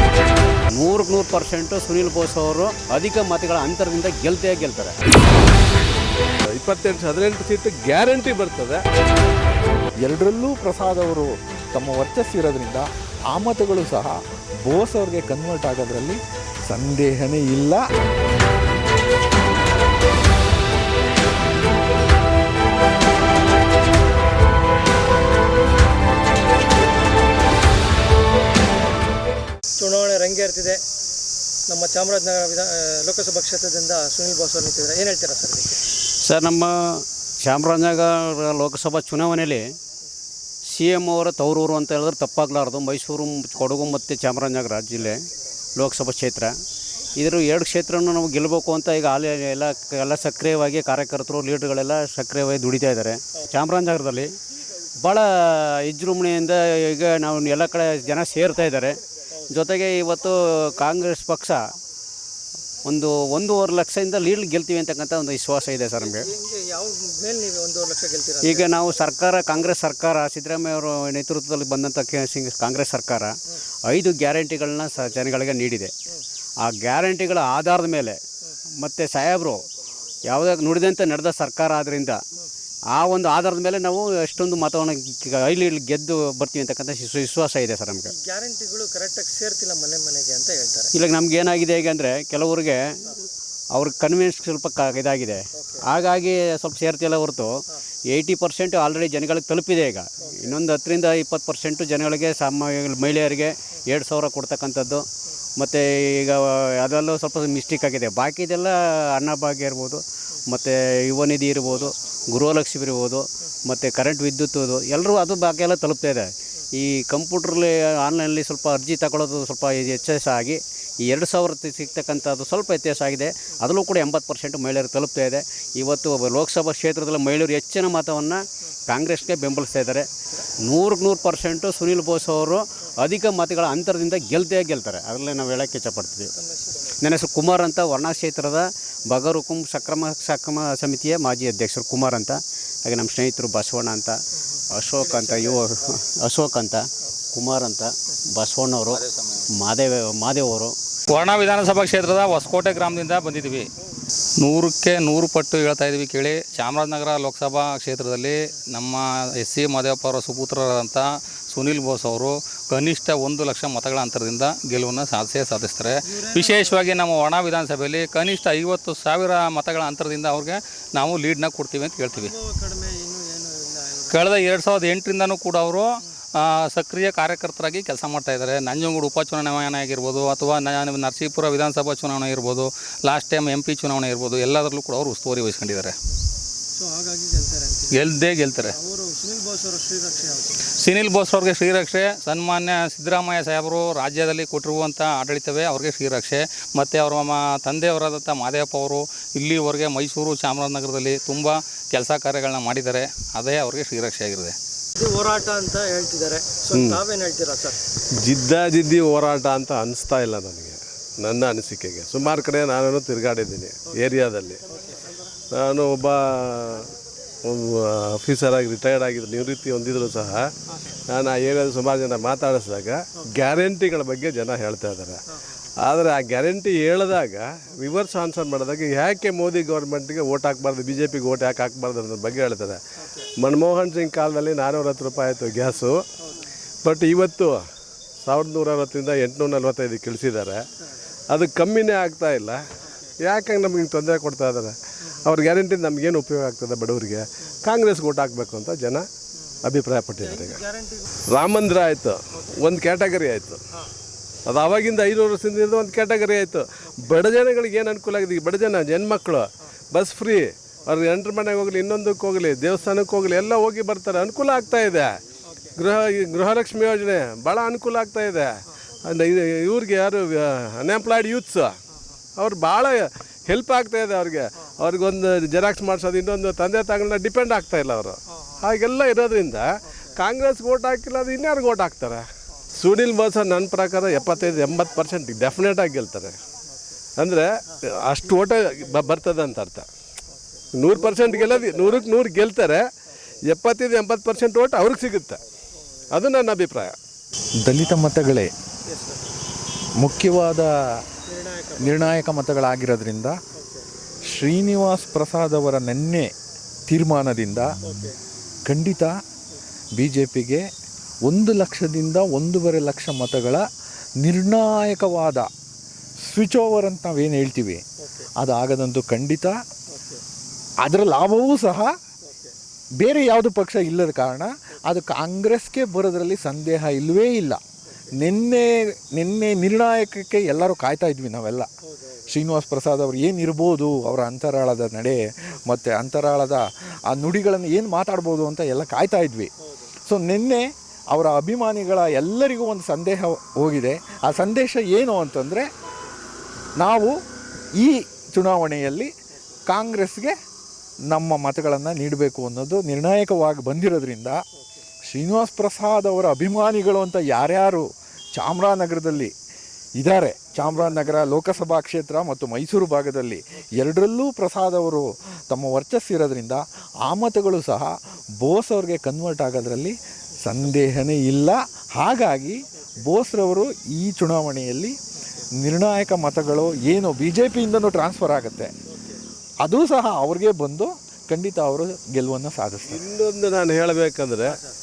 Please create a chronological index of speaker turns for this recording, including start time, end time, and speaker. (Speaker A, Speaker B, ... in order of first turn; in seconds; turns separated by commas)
Speaker A: 0.8-5.0, Speaker B: 6.5-8.8, Speaker C: 10.0-17.8, Speaker D: 29.8-30.8, Speaker D: 31.7-35.8, Speaker A: 36.2-39.7, Speaker A: 40.7-45.2, Speaker A: 45.8-46.6, Speaker A: 47.2-54.3, Speaker A: 55.0-59.0, Speaker A: 59.5-61.6, Speaker A: 62.9-66.3, Speaker D: 66.2-68.7, Speaker A: 68.4-73.3, Speaker A: 73.9-75.9, Speaker A: 76.6-78.2, Speaker A: 78.8-79.7, Speaker A: 80.3-82.2, Speaker A: 83.0-88.1, Speaker D: 88.1-90.9, Speaker A: 90.9-93.2, Speaker A: 93.7-105.1, Speaker A: 105.6-130.1, Speaker A: 130.7-136.3, Speaker D: 136.4-136.9, Speaker A: 136.8-144.2, Speaker A: 144.7-149.0, Speaker D: 145.1-145.6, Speaker E: 148.9-149.5, Speaker A: 149.5-150.8, Speaker E: 151.1-153.7, Speaker E: 154.4-172.3, Speaker D: 166.1-166.8, Speaker D: 172.2-174.2, Speaker E: 174.1-186.0, Speaker D: 186.8-187.9, Speaker E: 187.9-188.8, Speaker D: 188.8-190.6, Speaker E: 190.8-204.6, Speaker D: 204.9-207.8, Speaker B: 206.7-207.0, Speaker B: 208.2-214.6, Speaker D: 214.8-215.0, Speaker B: 215.5-216.9, Speaker B: 217.4-220.5, Speaker B: 221.1-225.2, Speaker B: 225.8-232.8, Speaker B: 233.4-236.0, Speaker B: 236.8-237.6, Speaker B: 238.2-240.7, Speaker B: 241.3-242.6, Speaker B: 243.2-249.1, Speaker B: 249.6-250.6, Speaker D: 250.2-251.1, Speaker B: 251.2-253.6, Speaker B: 254.5-265.2, Speaker B: 265.8-271.8, Speaker B: 272.4-286.4, Speaker B: 287.2-289.9, Speaker B: 290.8-292.9, Speaker D: 290.9-292.0, Speaker B: 293.5-295.4, Speaker B: 296.1-297.0, Speaker C: 297.6-298.5, Speaker D: 298.9-299.4, Speaker C: 300.0-300.7, Speaker D: 301.3-302.1, Speaker C: 301.8-303.4, Speaker D: 303.6-303.9, Speaker C: 304.3-306.3, Speaker C: 306.9-307.8, Speaker D: 307.9-308.1, Speaker C: 308.7-309.1, Speaker C: 310.0-310.6, Speaker C: 311.3-313.6, Speaker C: 314.2-315.5, Speaker C: 316.3-317.8, Speaker C: 318.4-319.6, Speaker D: 319.9-320.2, Speaker C: 320.8-321.9, Speaker D: 322.3-322.5, Speaker C: 323.0-327.6, Speaker C: 328.2-331.7, Speaker D: 331.9-332.2, Speaker C: 332.3-339.5, Speaker C: 340.1-345.7, Speaker C: 346.8-347.2, Speaker C: 347.8-349.1, Speaker C: 349.7-350.3, Speaker C: 351.1-354.4, Speaker C: 355.1-359.3, Speaker C: 360.0-375.0, Speaker C: 375.6-378.7, Speaker C: 379.6-383.0, Speaker B: 382.9-384.6